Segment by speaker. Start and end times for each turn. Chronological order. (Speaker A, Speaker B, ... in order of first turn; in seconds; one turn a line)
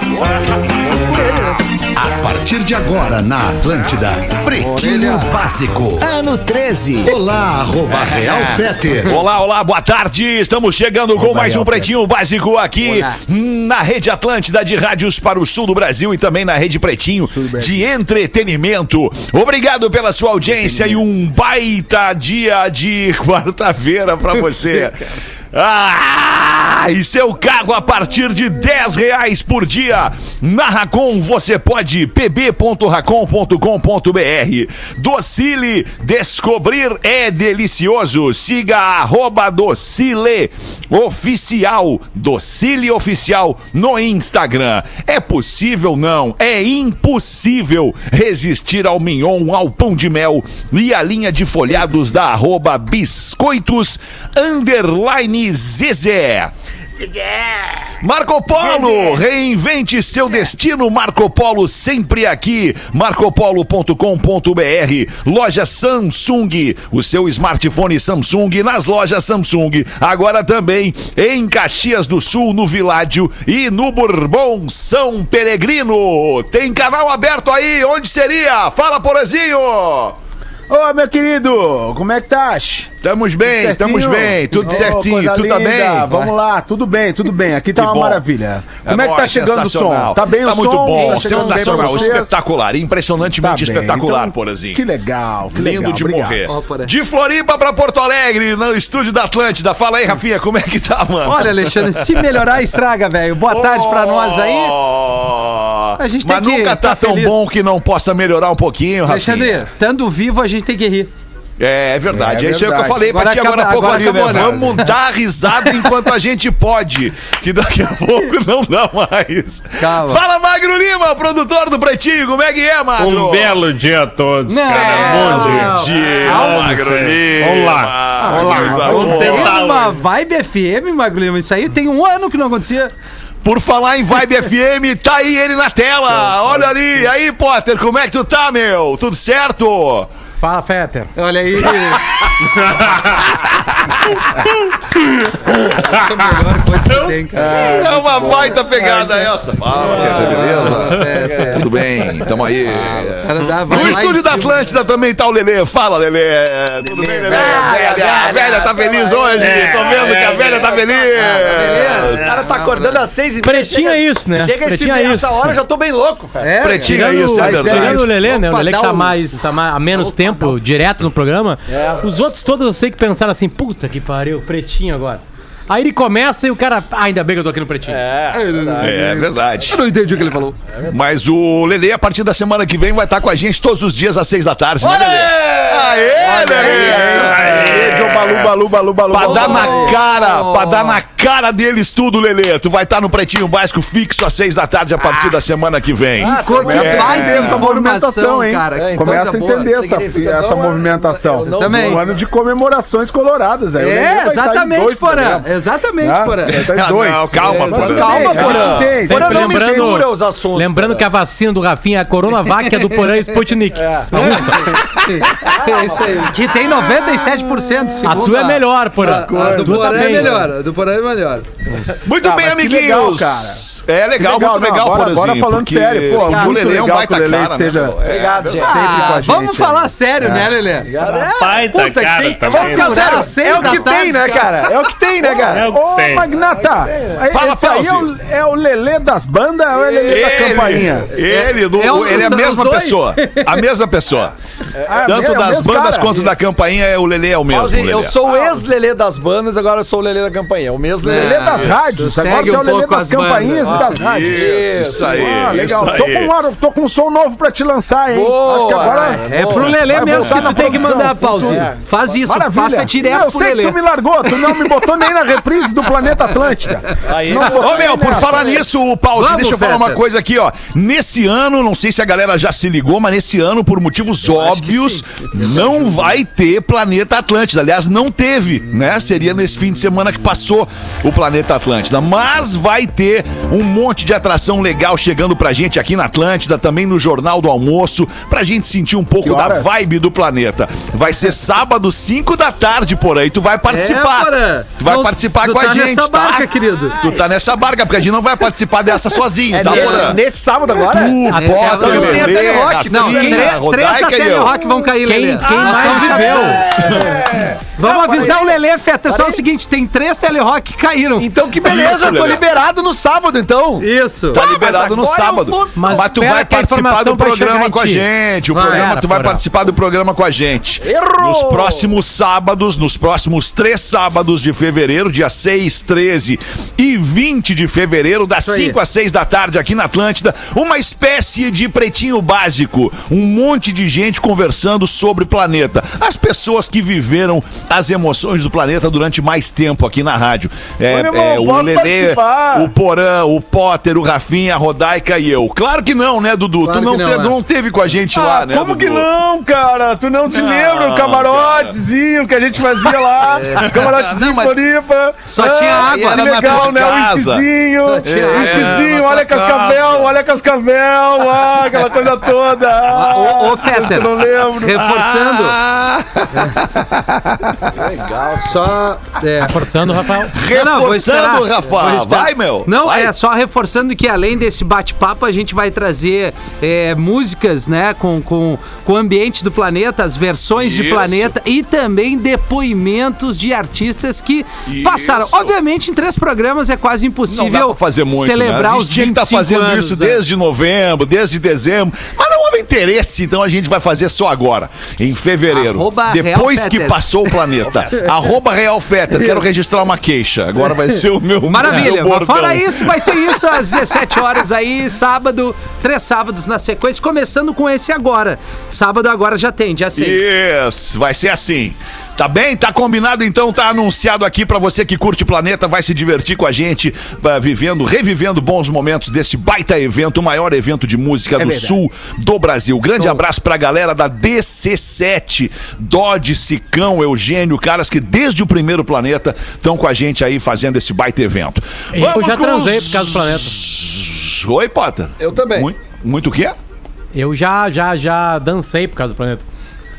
Speaker A: 0.7-9.2
Speaker B: 4.6-5.3
Speaker C: 6.5-7.1
Speaker C: 9.1-56.5
Speaker D: 11.2-11.9
Speaker B: 12.8-13.1
Speaker D: 17.3-17.9
Speaker D: 20.6-21.0
Speaker C: 58.0-80.2
Speaker D: 80.7-82.9
Speaker C: 83.0-86.1
Speaker D: 83.4-92.3
Speaker C: 87.8-88.2
Speaker C: 88.8-94.8
Speaker E: 90.9-92.1
Speaker D: 93.4-96.5
Speaker C: 95.5-102.3
Speaker B: 96.5-96.9
Speaker B: 101.2-104.8
Speaker C: 103.5-109.7
Speaker B: 106.0-107.4
Speaker B: 109.1-111.1
Speaker C: 111.6-123.6
Speaker D: 112.1-113.1
Speaker B: 113.1-114.9
Speaker B: 119.8-120.2
Speaker F: 123.0-130.0
Speaker B: 124.5-126.8
Speaker C: 124.7-129.6
Speaker D: 128.2-129.5
Speaker B: 128.5-132.9
Speaker C: 133.4-140.1
Speaker E: 140.4-141.1
Speaker B: 141.2-142.3
Speaker C: 141.9-142.3
Speaker C: 143.1-144.7
Speaker B: 145.5-151.7
Speaker C: 147.0-162.2
Speaker B: 152.6-154.6
Speaker G: 156.8-166.8
Speaker F: 159.4-160.5
Speaker B: 161.1-163.1
Speaker F: 162.0-162.4
Speaker E: 163.4-165.4
Speaker B: 166.4-167.0
Speaker C: 166.6-168.1
Speaker E: 166.9-178.0
Speaker D: 167.2-168.2
Speaker B: 167.6-170.6
Speaker G: 171.7-172.1
Speaker G: 177.9-181.0
Speaker B: 178.3-180.6
Speaker C: 178.8-179.8
Speaker C: 180.9-188.5
Speaker G: 184.8-187.5
Speaker D: 186.3-190.0
Speaker F: 187.4-188.0
Speaker C: 189.1-197.7
Speaker B: 189.2-191.0
Speaker G: 196.2-197.6
Speaker B: 196.4-199.7
Speaker D: 196.5-205.5
Speaker G: 198.7-202.2
Speaker B: 201.6-202.0
Speaker B: 203.8-206.7
Speaker D: 206.0-210.0
Speaker C: 206.5-208.8
Speaker B: 207.4-208.7
Speaker G: 207.6-211.1
Speaker E: 208.5-214.7
Speaker B: 212.6-213.2
Speaker G: 213.8-214.7
Speaker B: 214.1-221.5
Speaker C: 215.0-215.5
Speaker G: 215.5-216.4
Speaker E: 218.0-220.5
Speaker G: 219.3-220.1
Speaker D: 219.3-219.8
Speaker C: 222.0-228.7
Speaker D: 222.2-223.6
Speaker D: 224.2-228.0
Speaker G: 226.2-226.6
Speaker G: 228.0-229.2
Speaker D: 228.6-230.4
Speaker B: 228.6-230.9
Speaker G: 230.8-231.7
Speaker F: 231.2-233.7
Speaker B: 231.6-234.8
Speaker G: 232.4-235.7
Speaker D: 235.2-241.1
Speaker F: 235.5-236.3
Speaker G: 236.6-237.2
Speaker C: 237.3-238.1
Speaker G: 239.7-241.0
Speaker C: 240.1-244.3
Speaker B: 241.3-243.6
Speaker G: 244.8-245.3
Speaker D: 244.9-246.2
Speaker C: 245.0-248.2
Speaker G: 247.5-251.8
Speaker B: 251.0-253.9
Speaker D: 251.1-261.7
Speaker G: 253.6-255.6
Speaker C: 253.9-256.4
Speaker G: 258.1-260.6
Speaker B: 258.8-265.3
Speaker C: 259.9-260.9
Speaker G: 261.3-261.8
Speaker D: 262.2-268.5
Speaker G: 267.0-268.6
Speaker C: 267.4-304.6
Speaker B: 269.2-270.0
Speaker B: 274.2-276.0
Speaker D: 289.2-289.7
Speaker B: 293.7-297.0
Speaker G: 299.5-303.5
Speaker B: 299.6-300.1
Speaker B: 301.3-307.0
Speaker E: 305.0-306.6
Speaker G: 305.7-309.4
Speaker C: 306.9-307.2
Speaker B: 307.8-311.3
Speaker G: 311.2-316.1
Speaker C: 311.6-312.4
Speaker B: 313.8-314.4
Speaker C: 314.3-349.1
Speaker E: 315.8-319.4
Speaker B: 318.5-318.9
Speaker G: 320.8-321.9
Speaker B: 328.4-328.8
Speaker D: 340.9-342.7
Speaker B: 346.6-347.4
Speaker D: 348.1-364.8
Speaker C: 350.3-351.8
Speaker B: 353.3-353.7
Speaker C: 353.6-354.6
Speaker B: 355.3-356.8
Speaker C: 355.7-357.5
Speaker B: 357.9-358.9
Speaker C: 358.1-360.2
Speaker B: 362.9-365.6
Speaker C: 364.7-367.8
Speaker G: 367.7-368.7
Speaker B: 368.4-369.6
Speaker E: 369.4-370.3
Speaker C: 370.1-373.1
Speaker B: 370.5-390.2
Speaker C: 380.6-381.3
Speaker C: 384.7-385.5
Speaker C: 387.3-404.2
Speaker B: 395.5-398.1
Speaker B: 399.1-399.4
Speaker B: 400.7-410.2
Speaker C: 409.9-436.6
Speaker D: 421.4-421.8
Speaker E: 431.9-433.6
Speaker G: 435.2-435.7
Speaker E: 437.1-439.4